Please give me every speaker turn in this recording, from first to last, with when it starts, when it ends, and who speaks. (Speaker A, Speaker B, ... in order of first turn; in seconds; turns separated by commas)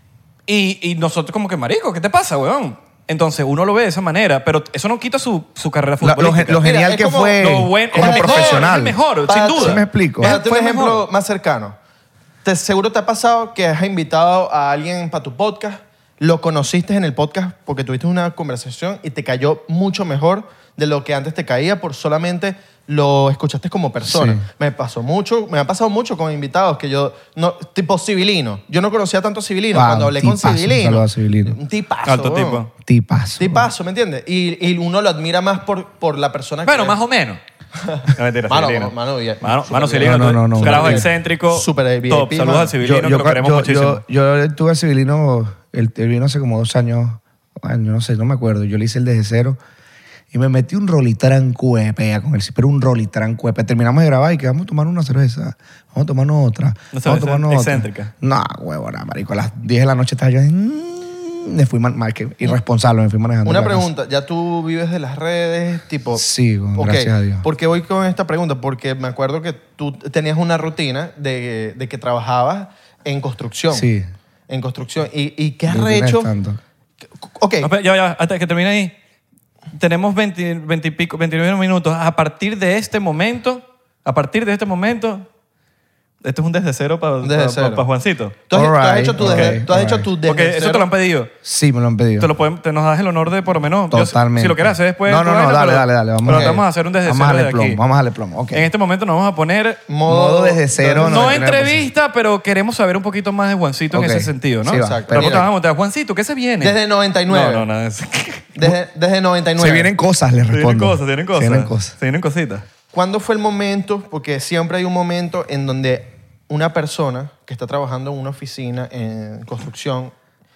Speaker A: 0.5-6.6, Speaker B: 6.0-9.0, Speaker C: 6.6-8.7, Speaker A: 7.4-11.1, Speaker C: 9.2-11.8, Speaker B: 9.6-10.3, Speaker C: 12.4-32.6, Speaker B: 24.0-24.4, Speaker B: 29.7-31.6, Speaker A: 32.0-32.7, Speaker B: 32.8-33.7, Speaker C: 33.4-37.0, Speaker A: 36.6-37.4, Speaker C: 37.8-42.7, Speaker A: 38.1-44.0, Speaker B: 40.0-41.1, Speaker B: 42.8-49.6, Speaker B: 50.3-63.9, Speaker A: 56.9-58.1, Speaker C: 63.4-66.2, Speaker B: 66.2-67.5, Speaker C: 66.8-73.9, Speaker B: 73.7-74.1, Speaker C: 74.5-76.3, Speaker B: 75.7-76.6, Speaker C: 77.3-77.7, Speaker A: 77.6-78.9, Speaker A: 79.7-85.2, Speaker A: 86.2-88.4, Speaker C: 87.2-87.8, Speaker C: 88.5-90.9, Speaker B: 88.5-90.1, Speaker A: 89.2-89.6, Speaker A: 90.2-91.3, Speaker B: 91.4-92.3, Speaker A: 92.2-97.8, Speaker B: 93.9-98.7, Speaker C: 96.3-96.6, Speaker A: 98.5-99.8, Speaker C: 99.9-101.4, Speaker B: 100.0-101.9, Speaker A: 101.0-106.8, Speaker B: 103.9-105.4, Speaker C: 104.8-105.5, Speaker C: 106.6-107.7, Speaker A: 107.3-108.5, Speaker C: 108.5-109.9, Speaker B: 109.6-111.9, Speaker A: 110.5-112.6, Speaker C: 112.9-120.1